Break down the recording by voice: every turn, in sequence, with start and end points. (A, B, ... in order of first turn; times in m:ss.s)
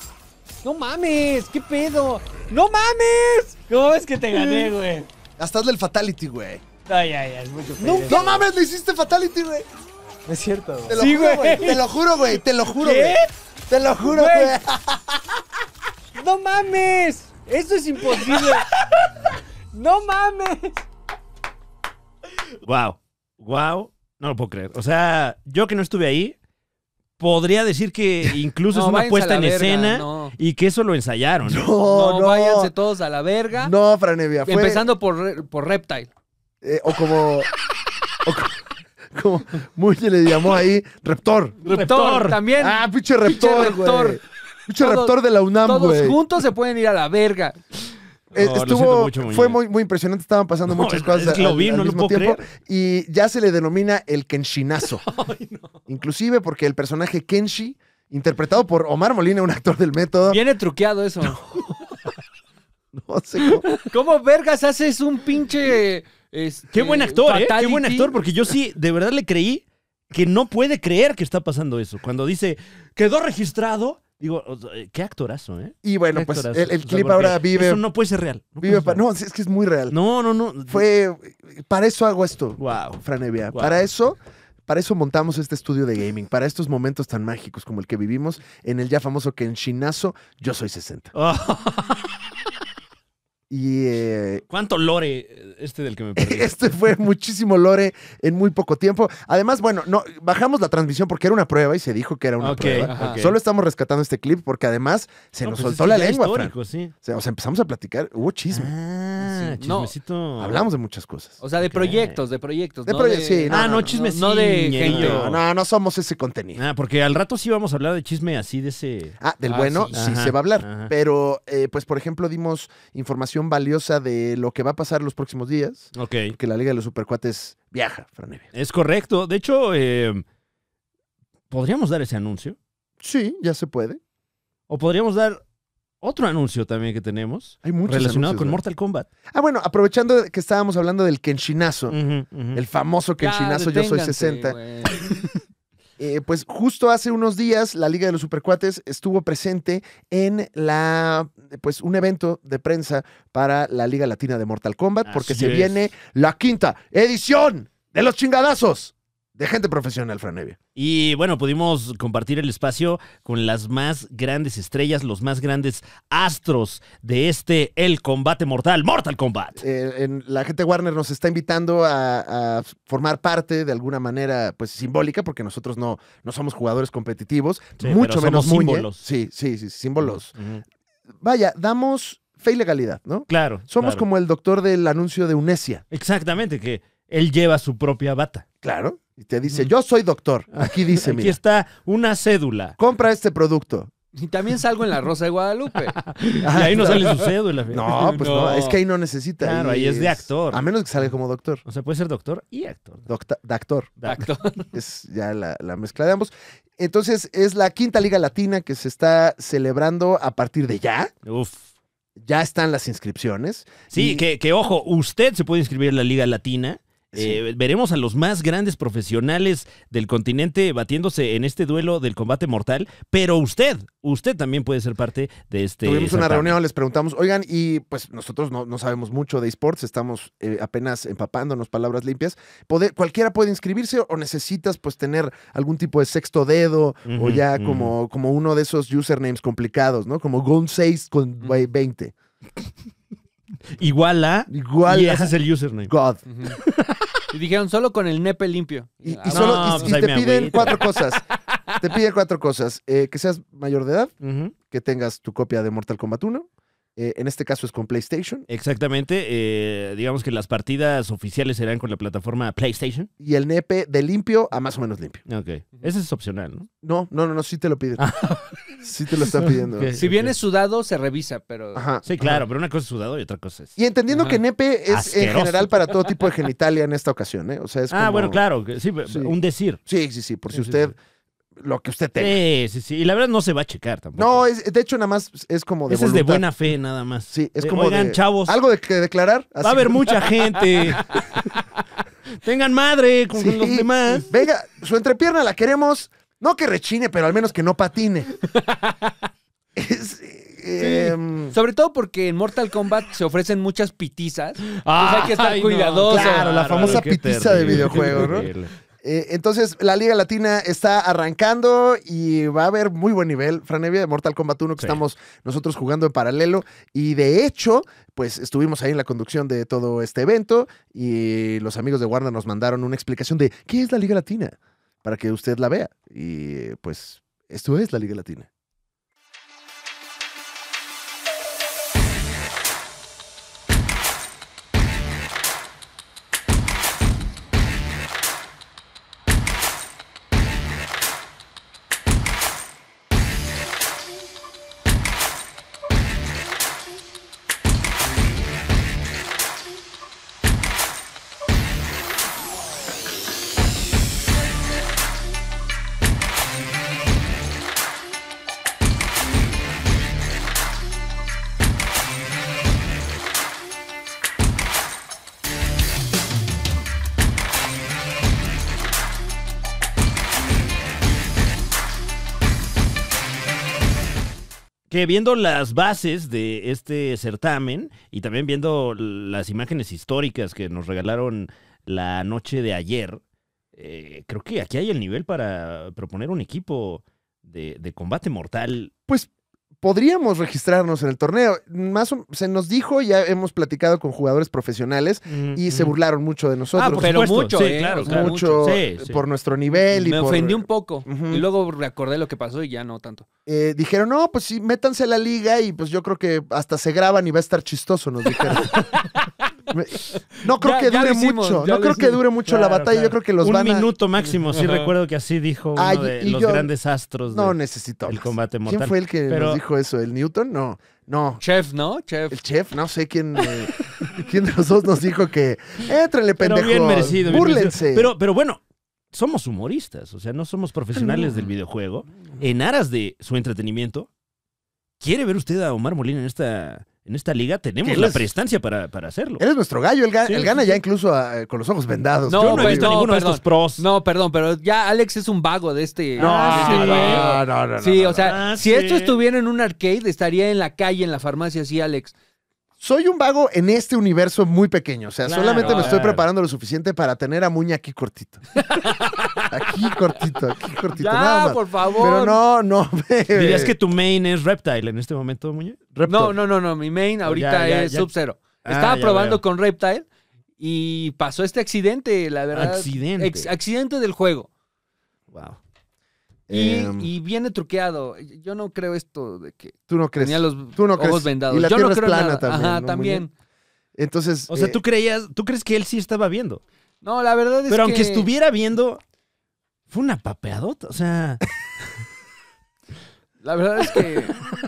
0:00.6-0:05.1 A
0:04.4-0:04.7 B
0:05.4-0:06.6 B
0:06.9-0:08.4 A
0:07.8-0:08.3 C
0:08.1-0:09.7 B
0:10.3-0:11.8 A
0:10.9-0:14.8 B
0:12.8-0:13.3 A
0:14.0-0:14.6 A
0:16.2-0:18.7 A
0:19.7-0:20.8 A
0:22.6-0:26.4 D
0:27.2-0:31.7 D
0:28.7-0:30.4 C
0:31.4-0:32.7 B
0:31.8-0:33.7 C
0:33.6-0:34.8 B
0:34.4-0:36.1 C
0:36.6-0:37.5 B
0:38.2-0:38.6 B
0:39.1-0:41.6 B
0:41.6-0:42.4 D
0:41.6-0:44.2 C
0:42.6-0:46.2 B
0:44.8-0:47.6 C
0:48.3-0:55.0 B
0:48.3-0:49.6 D
0:50.7-0:52.4 D
0:55.9-1:00.4 B
1:00.3-1:01.4 C
1:01.3-1:01.6 B
1:02.9-1:03.7 B
1:03.8-1:08.1 C
1:06.7-1:19.0 D
1:15.8-1:17.8 B
1:18.6-1:20.0 B
1:19.9-1:20.9 D
1:20.7-1:31.1 B
1:22.6-1:23.0 D
1:31.1-1:32.1 D
1:33.5-1:34.4 B
1:34.5-1:36.6 D
1:36.2-1:48.7 B
1:42.4-1:43.4 D
1:42.8-1:43.2 C
1:45.4-1:46.9 D
1:48.5-1:50.6 D
1:49.6-1:49.9 C
1:50.4-1:51.4 B
1:51.4-1:55.2 C
1:51.6-1:52.2 D
1:52.9-1:53.9 B
1:53.5-1:55.4 D
1:54.8-1:56.6 B
1:56.6-1:59.2 D
1:59.2-2:08.5 B
1:59.5-1:59.9 C
1:59.9-2:00.9 D
2:06.0-2:06.4 D
2:08.5-2:10.2 D
2:11.5-2:12.6 D
2:13.0-2:14.0 B
2:14.7-2:15.4 D
2:16.0-2:19.1 D
2:17.6-2:18.6 B
2:19.3-2:22.0 B
2:21.9-2:22.6 D
2:22.5-2:24.6 B
2:23.2-2:25.1 C
2:26.0-2:40.6 B
2:35.0-2:35.8 D
2:40.8-2:49.6 D
2:49.6-3:00.3 B
2:57.8-2:59.0 D
3:00.1-3:00.6 D
3:01.2-3:05.8 B
3:03.3-3:04.1 D
3:05.9-3:08.5 D
3:08.6-3:11.4 B
3:10.5-3:12.8 D
3:12.8-3:13.9 B
3:14.2-3:16.0 C
3:16.0-3:18.1 D
3:16.4-3:17.2 B
3:16.6-3:17.2 C
3:17.7-3:21.6 B
3:17.9-3:18.8 C
3:19.4-3:20.6 D
3:21.7-3:23.1 D
3:23.1-3:24.0 B
3:24.0-3:24.3 D
3:24.0-3:24.7 C
3:24.7-3:31.1 B
3:31.3-3:31.7 D
3:32.2-3:34.2 B
3:33.9-3:46.6 D
3:37.1-3:37.4 B
3:45.8-4:02.1 B
3:57.1-3:57.9 D
4:03.8-4:05.9 D
4:04.5-4:05.4 B
4:05.9-4:06.2 B
4:06.3-4:06.6 C
4:06.6-4:07.1 D
4:07.3-4:09.9 C
4:09.0-4:11.2 B
4:09.3-4:10.9 D
4:11.8-4:14.1 B
4:14.2-4:14.6 D
4:14.7-4:18.5 B
4:18.5-4:23.1 D
4:23.2-4:25.2 B
4:25.3-4:26.7 D
4:26.8-4:28.0 B
4:28.0-4:28.6 D
4:28.8-4:30.0 B
4:29.2-4:30.4 D
4:30.0-4:31.8 C
4:31.8-4:32.4 B
4:32.0-4:33.8 D
4:33.8-4:38.4 B
4:34.1-4:34.4 C
4:34.9-4:35.8 D
4:37.9-4:39.8 D
4:39.1-4:39.3 B
4:39.8-4:41.0 B
4:40.5-4:40.9 D
4:41.6-4:42.4 B
4:42.2-4:44.4 D
4:44.2-4:46.5 B
4:45.9-4:48.6 D
4:47.3-4:50.3 B
4:49.6-4:51.4 D
4:52.4-4:54.3 D
4:53.3-4:58.3 B
4:58.7-4:59.1 C
4:59.8-5:01.6 B
5:00.8-5:07.0 C
5:04.6-5:08.7 D
5:06.1-5:08.5 B
5:09.0-5:28.5 B
6:14.9-6:23.2 D
6:23.8-6:28.9 D
6:29.8-6:37.2 B
6:35.3-6:35.9 D
6:36.8-6:39.2 D
6:36.8-6:38.7 C
6:38.0-6:41.5 B
6:39.9-6:43.3 C
6:43.5-6:48.9 B
6:48.6-6:49.2 C
6:49.7-6:53.9 B
6:50.6-6:52.2 C
6:52.5-6:57.6 D
6:54.5-6:54.9 C
6:55.8-6:56.7 B
6:57.3-7:01.4 B
6:58.1-6:59.6 D
7:01.4-7:02.4 C
7:02.3-7:08.1 B
7:06.4-7:08.6 D
7:09.1-7:14.1 D
7:11.0-7:11.5 B
7:15.0-7:19.4 D
7:17.8-7:18.3 B
7:19.4-7:23.0 B
7:20.3-7:20.5 D
7:22.3-7:32.1 C
7:22.4-7:23.8 D
7:26.2-7:27.3 D
7:26.2-7:28.4 B
7:28.2-7:29.2 D
7:32.8-7:38.4 B
7:35.2-7:36.2 D
7:35.6-7:36.0 C
7:38.6-7:39.2 C
7:39.5-7:43.8 B
7:40.9-7:42.4 C
7:43.3-7:45.9 D
7:46.0-7:46.4 B
7:46.1-7:50.1 C
7:47.2-7:48.1 D
7:48.6-7:49.4 D
7:50.6-7:54.5 C
7:52.5-7:53.5 D
7:55.3-7:55.6 D
7:56.5-7:57.1 B
7:56.5-8:03.3 C
7:59.9-8:03.3 B
8:04.0-8:04.8 B
8:04.5-8:06.6 D
8:07.0-8:08.3 C
8:07.7-8:09.0 D
8:09.9-8:11.4 D
8:13.4-8:14.4 C